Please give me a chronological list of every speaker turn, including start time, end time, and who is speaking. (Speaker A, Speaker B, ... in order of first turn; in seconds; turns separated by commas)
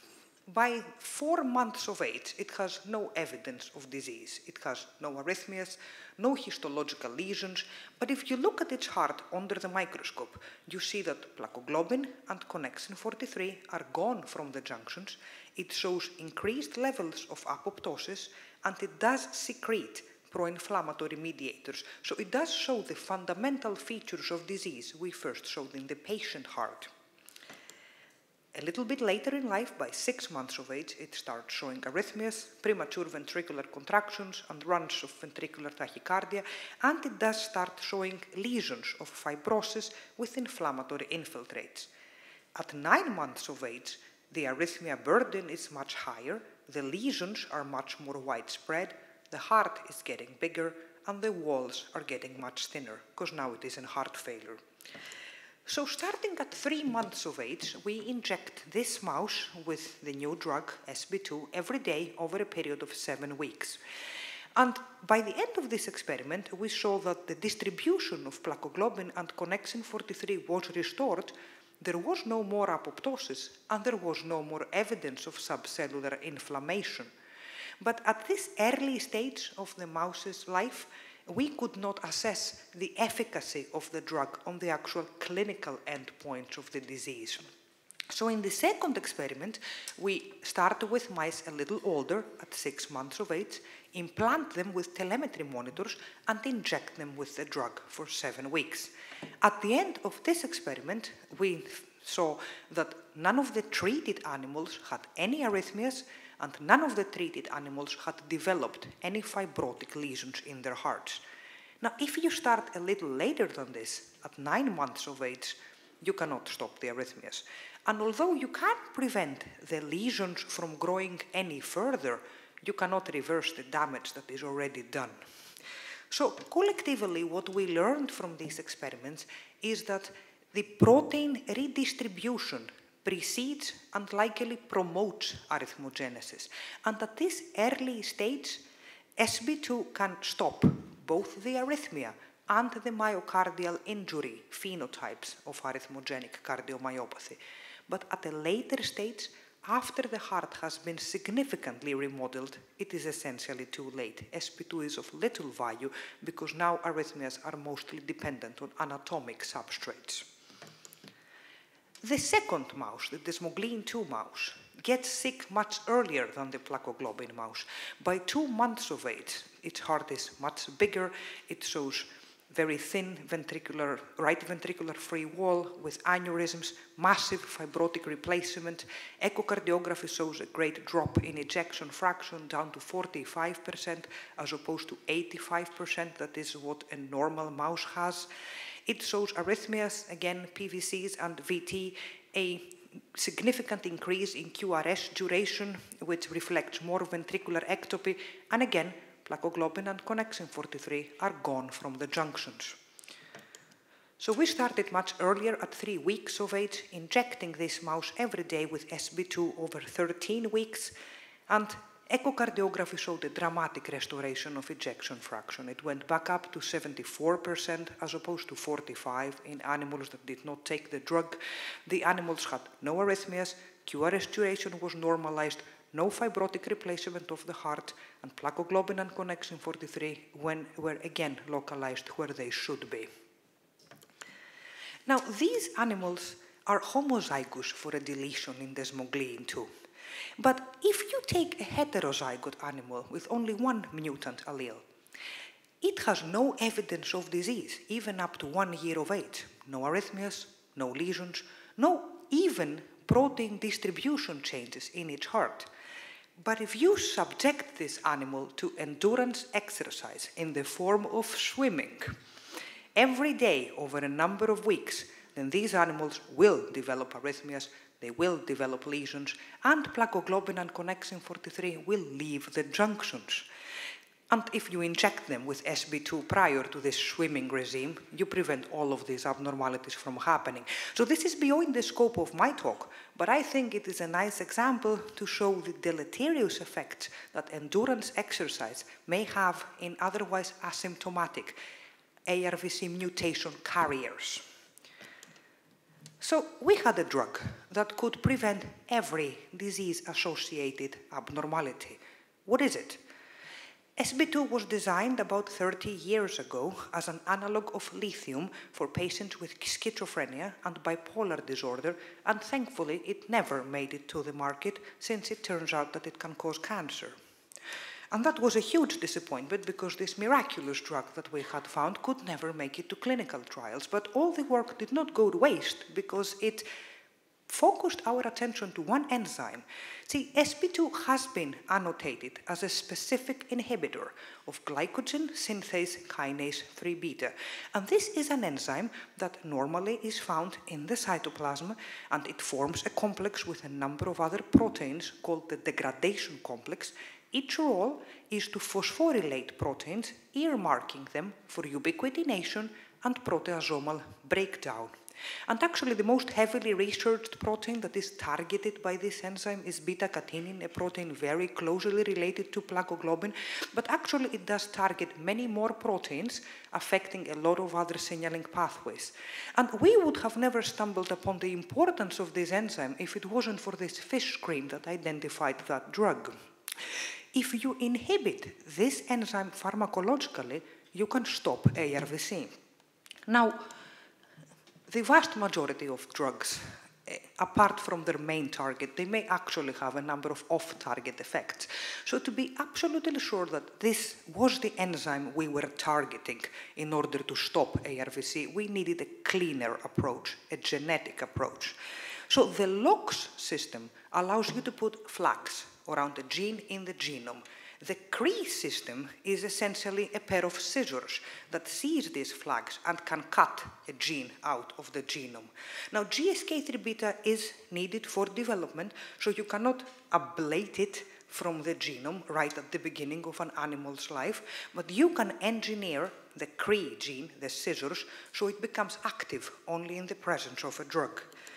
Speaker A: 0.5-26.9, Speaker A: 28.5-41.9, Speaker A: 42.5-54.6, Speaker A: 55.6-63.8, Speaker A: 64.5-77.1, Speaker A: 77.8-87.5, Speaker A: 88.1-111.2, Speaker A: 111.8-125.2, Speaker A: 126.1-138.6, Speaker A: 139.2-160.2, Speaker A: 162.0-188.3, Speaker A: 188.8-202.8, Speaker A: 204.2-210.9, Speaker A: 211.5-233.1, Speaker A: 235.1-239.7, Speaker A: 240.4-244.8, Speaker A: 245.8-255.7, Speaker A: 256.4-262.1, Speaker A: 262.9-273.5, Speaker A: 274.3-291.6, Speaker A: 292.2-294.4, Speaker A: 296.2-303.0, Speaker A: 304.0-317.1, Speaker A: 318.1-326.7, Speaker A: 327.5-354.9, Speaker A: 355.5-376.3, Speaker A: 377.3-382.6, Speaker A: 383.3-383.6, Speaker A: 384.9-401.8, Speaker A: 402.3-431.3